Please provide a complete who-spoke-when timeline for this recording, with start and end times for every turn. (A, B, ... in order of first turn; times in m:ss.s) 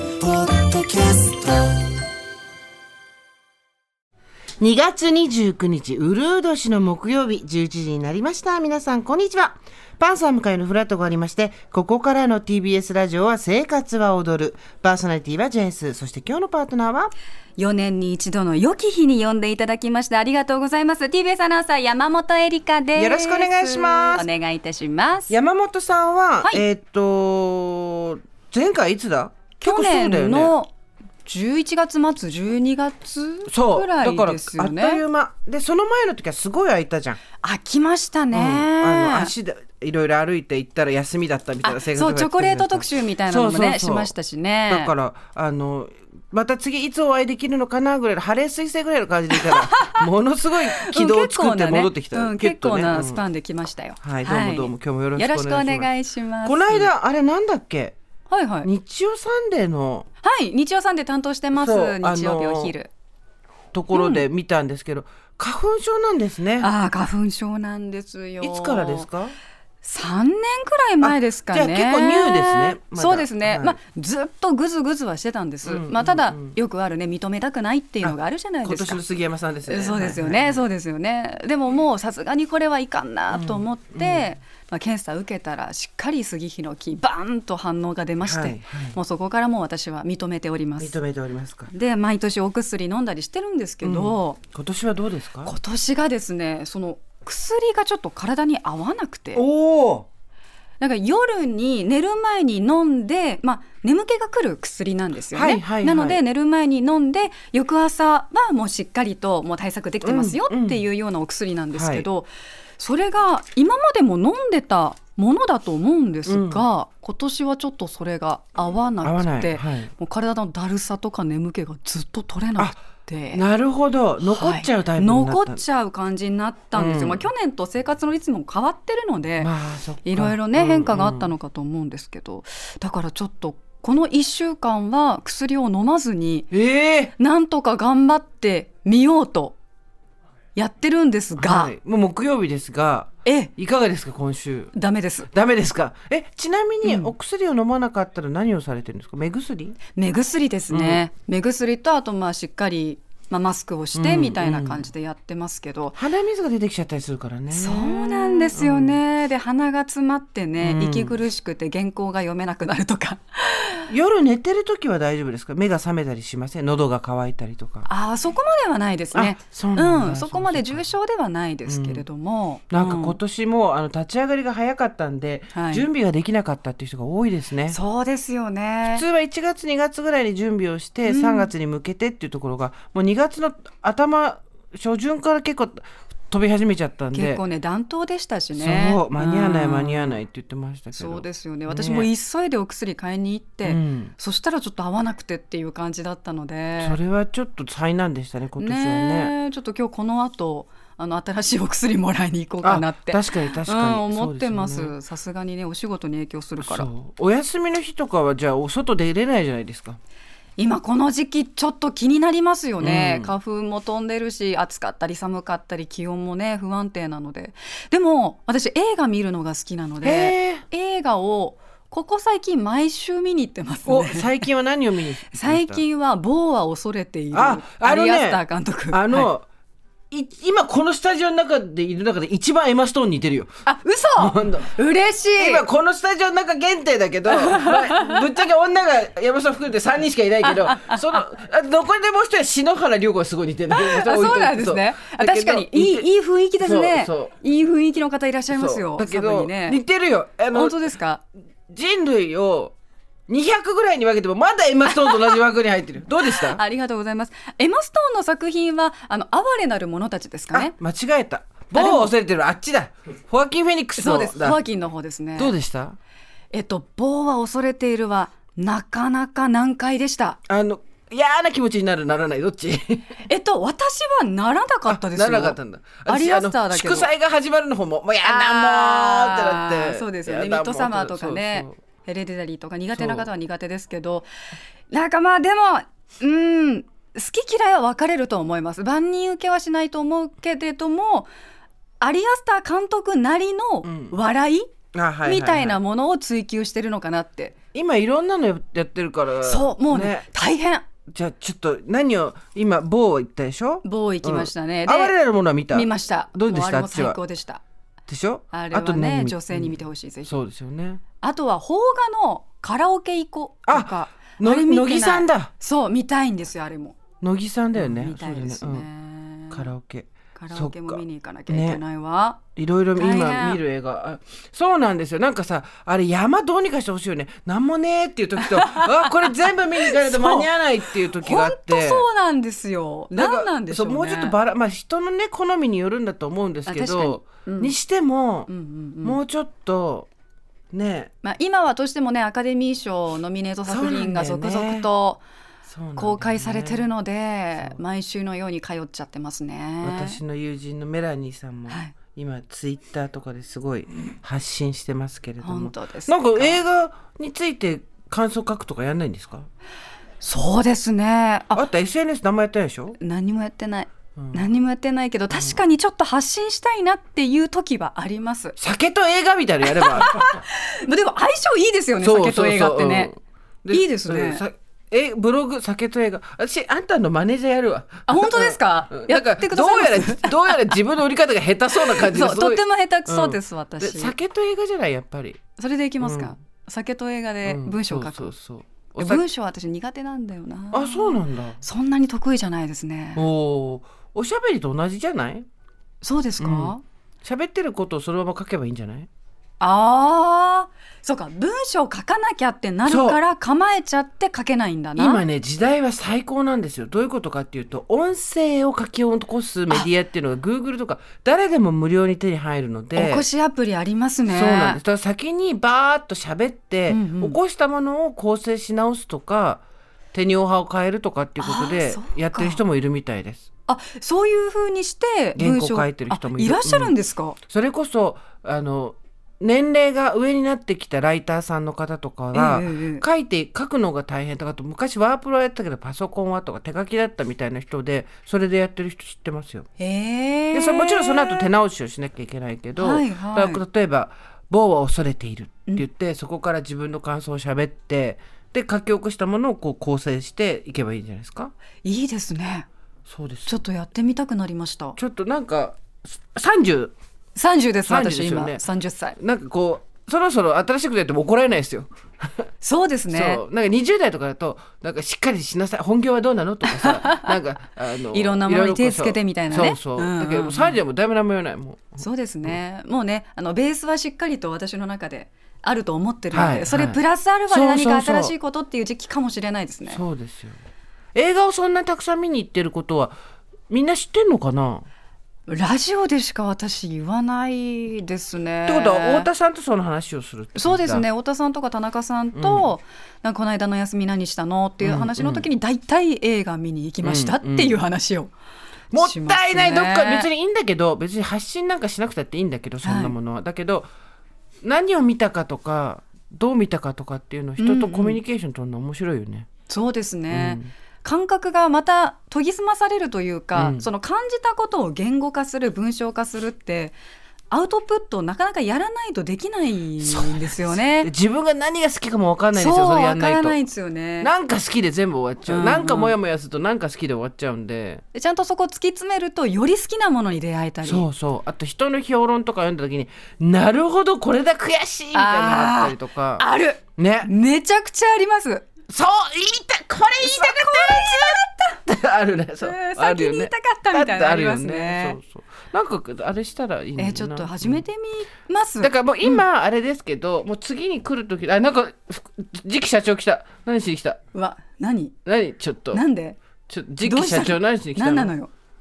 0:00.4-0:01.5 A
0:04.6-0:17.1 A
0:17.6-0:25.3 B
0:23.0-0:24.3 A
0:25.3-0:30.6 A
0:29.6-0:30.7 B
0:31.2-0:35.0 B
0:33.5-0:37.2 A
0:37.4-0:39.3 B
0:38.3-0:44.1 A
0:41.6-0:44.9 B
0:44.7-0:53.2 A
0:50.7-0:56.9 B
0:54.0-0:55.9 A
0:56.4-0:58.0 A
0:58.3-0:58.7 B
0:58.6-1:00.1 A
1:00.2-1:02.9 B
1:01.5-1:02.7 A
1:03.7-1:06.7 A
1:03.9-1:04.2 B
1:06.6-1:09.1 B
1:08.4-1:09.4 A
1:09.8-1:19.0 B
1:11.0-1:13.8 A
1:15.6-1:16.6 A
1:18.0-1:20.6 A
1:19.7-1:31.0 B
1:23.3-1:24.3 A
1:28.2-1:29.0 A
1:30.8-1:31.7 A
1:31.7-1:34.4 B
1:33.8-1:35.5 A
1:35.4-1:39.4 B
1:39.3-1:40.1 A
1:40.8-2:03.4 B
1:45.3-1:46.2 A
1:50.0-1:50.8 A
1:51.7-1:52.1 A
1:56.3-1:56.6 A
1:59.0-1:59.9 A
2:03.3-2:05.6 A
2:04.2-2:09.5 B
2:06.7-2:07.3 A
2:09.4-2:11.3 A
2:10.0-2:16.5 B
2:16.5-2:17.1 A
2:17.2-2:19.6 B
2:20.6-2:21.7 B
2:21.4-2:24.7 A
2:23.2-2:23.5 B
2:24.7-2:25.3 B
2:25.3-2:29.8 A
2:26.8-2:27.1 B
2:30.0-2:36.0 B
2:30.7-2:31.0 A
2:34.0-2:34.8 A
2:36.0-2:39.0 A
2:37.5-2:43.9 B
2:40.6-2:41.2 A
2:43.9-2:47.9 A
2:47.9-2:53.2 B
2:49.1-2:50.8 A
2:51.7-2:52.0 A
2:52.7-2:57.8 A
2:55.5-2:55.9 B
2:57.7-2:59.0 B
2:58.9-3:07.4 A
3:01.0-3:01.5 B
3:07.1-3:10.2 B
3:08.6-3:12.1 A
3:10.9-3:17.0 B
3:13.6-3:14.1 A
3:16.8-3:19.3 A
3:18.6-3:26.9 B
3:22.6-3:25.0 A
3:26.6-3:30.0 A
3:30.6-3:44.5 B
3:32.8-3:33.4 A
3:40.0-3:40.6 A
3:43.9-3:45.8 A
3:45.3-3:49.3 B
3:47.3-3:49.5 A
3:50.1-3:53.5 A
3:53.7-3:55.6 B
3:54.2-3:54.8 A
3:55.4-4:06.1 A
3:57.3-3:58.2 B
4:00.5-4:01.0 B
4:03.7-4:09.8 B
4:06.6-4:07.4 A
4:08.5-4:10.8 A
4:10.5-4:11.2 B
4:11.7-4:12.8 A
4:13.3-4:16.6 A
4:14.9-4:15.3 B
4:16.2-4:20.7 B
4:20.5-4:24.6 A
4:21.7-4:22.1 B
4:24.0-4:25.6 B
4:25.4-4:26.0 A
4:26.5-4:30.4 B
4:30.5-4:33.2 A
4:33.3-4:37.1 B
4:34.9-4:41.8 A
4:38.2-4:44.3 B
4:42.9-4:43.3 A
4:44.9-4:51.3 B
4:52.0-4:54.7 B
4:53.8-4:54.2 A
4:54.9-4:55.8 A
4:55.2-4:57.6 B
4:57.7-5:00.3 A
4:59.4-5:00.8 B
5:01.1-5:07.2 A
5:03.8-5:05.1 B
5:05.7-5:07.6 B
5:08.1-5:11.0 A
5:08.5-5:10.4 B
5:11.2-5:17.0 B
5:13.7-5:15.5 A
5:17.2-5:18.9 A
5:17.8-5:19.7 B
5:19.5-5:21.8 A
5:20.4-5:22.4 B
5:22.6-5:32.1 A
5:23.0-5:23.6 B
5:28.5-5:30.5 B
5:31.2-5:34.4 B
5:33.1-5:38.5 A
5:36.7-5:37.8 B
5:38.5-5:39.2 B
5:39.0-5:40.1 A
5:40.7-5:41.1 A
5:41.2-5:45.2 B
5:43.7-5:44.9 A
5:45.7-5:46.9 A
5:46.0-5:50.2 B
5:49.8-5:59.5 A
5:51.7-5:51.9 B
5:55.4-5:56.6 B
6:00.2-6:01.6 B
6:01.5-6:03.0 A
6:03.0-6:08.6 B
6:04.2-6:04.5 A
6:05.3-6:05.6 A
6:08.6-6:10.4 A
6:09.7-6:13.1 B
6:12.0-6:25.4 A
6:13.7-6:14.4 B
6:18.1-6:20.8 B
6:21.8-6:24.2 B
6:25.6-6:28.3 B
6:26.0-6:26.3 A
6:27.4-6:29.2 A
6:29.0-6:33.3 B
6:30.7-6:31.6 A
6:33.2-6:35.5 A
6:36.0-6:36.8 B
6:36.4-6:39.1 A
6:39.6-6:45.2 B
6:42.9-6:43.2 A
6:45.0-6:53.3 A
6:53.0-6:54.8 B
6:54.3-7:03.5 A
6:56.9-6:57.4 B
7:01.4-7:02.6 B
7:03.7-7:07.4 B
7:05.4-7:07.0 A
7:07.5-7:19.7 A
7:12.3-7:13.0 B
7:19.8-7:21.5 B
7:20.5-7:31.5 A
7:22.8-7:23.6 B
7:31.8-7:32.7 B
7:33.1-7:33.5 A
7:33.5-7:35.0 B
7:35.0-7:36.9 A
7:37.4-7:39.2 B
7:37.8-7:38.6 A
7:39.2-7:42.5 A
7:42.6-7:43.4 B
7:43.1-7:52.6 A
7:46.6-7:47.4 B
7:48.1-7:50.8 B
7:52.0-8:00.0 B
7:56.3-7:58.3 A
7:59.9-8:00.6 A
8:01.2-8:03.2 A
8:03.7-8:04.9 A
8:05.5-8:09.3 B
8:08.7-8:11.1 A
8:10.6-8:18.3 B
8:12.4-8:12.7 A
8:14.8-8:15.5 A
8:17.0-8:17.8 A
8:18.9-8:20.3 B
8:18.9-8:23.9 A
8:22.8-8:23.2 B
8:24.6-8:29.5 A
8:27.6-8:28.2 B
8:29.7-8:37.0 B
8:30.3-8:30.7 A
8:33.6-8:33.9 A
8:37.5-8:41.1 B
8:40.0-8:43.6 A
8:42.6-8:44.3 B
8:44.2-8:48.0 A
8:45.5-8:46.2 B
8:48.1-8:51.1 B
8:50.8-8:56.4 A
8:55.1-8:58.7 B
8:57.0-8:57.3 A
8:58.9-9:07.8 A
9:00.2-9:01.8 B
9:02.6-9:05.2 B
9:07.0-9:09.4 B
9:08.8-9:14.2 A
9:14.3-9:15.2 B
9:15.2-9:16.0 A
9:15.9-9:16.4 B
9:16.7-9:18.3 A
9:17.0-9:18.5 B